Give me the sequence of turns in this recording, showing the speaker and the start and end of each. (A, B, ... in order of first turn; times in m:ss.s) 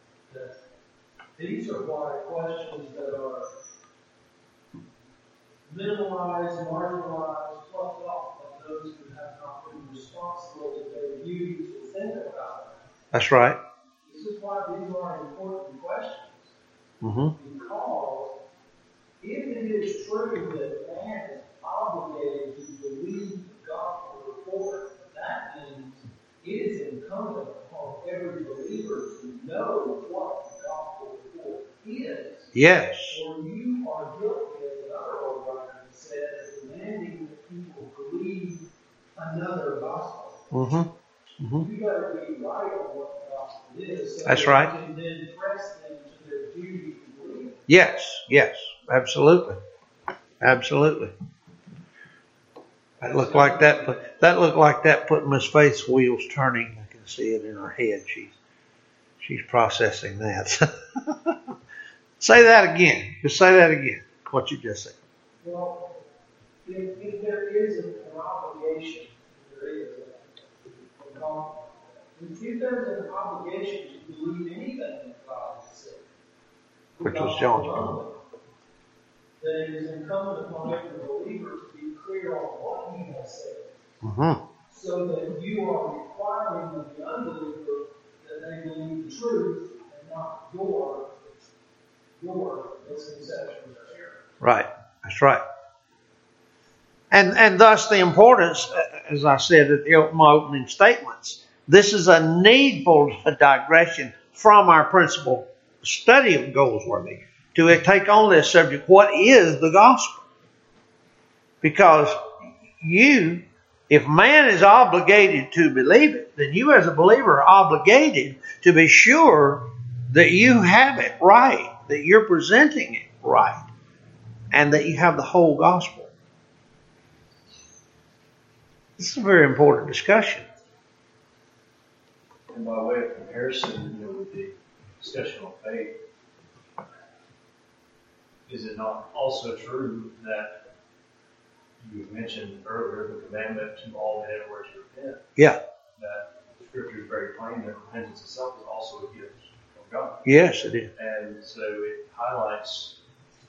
0:00.3-0:00.5 A
0:01.4-0:03.5 A
0:05.7-0:12.8 A
0:13.1-0:13.6 B
0:14.0-0:16.4 A
0:17.0-0:17.3 B
0:17.4-0:18.4 A
0:19.2-0:32.5 A
0:32.5-0:33.2 B
0:33.0-0:40.4 A
0:40.5-0:41.7 B
0:41.6-0:47.6 A
0:44.2-0:44.7 B
0:47.7-0:49.6 B
0:50.4-0:51.1 B
0:53.0-0:58.4 B
0:53.0-0:53.9 A
0:59.2-1:01.3 B
1:02.2-1:05.0 B
1:05.4-1:06.0 A
1:06.6-1:16.0 A
1:17.0-1:18.1 A
1:17.0-1:18.0 B
1:19.4-1:23.7 A
1:24.0-1:24.4 B
1:24.7-1:31.2 A
1:32.2-1:34.2 A
1:34.4-1:35.4 B
1:37.1-1:50.2 B
1:51.6-1:52.2 B
1:52.8-2:03.6 B
2:04.5-2:06.1 B
2:09.0-2:10.4 B
2:12.5-2:16.0 C
2:18.5-2:20.6 C
2:21.8-2:25.2 C
2:26.0-2:30.2 C
2:30.2-2:30.9 B
2:30.9-2:33.0 C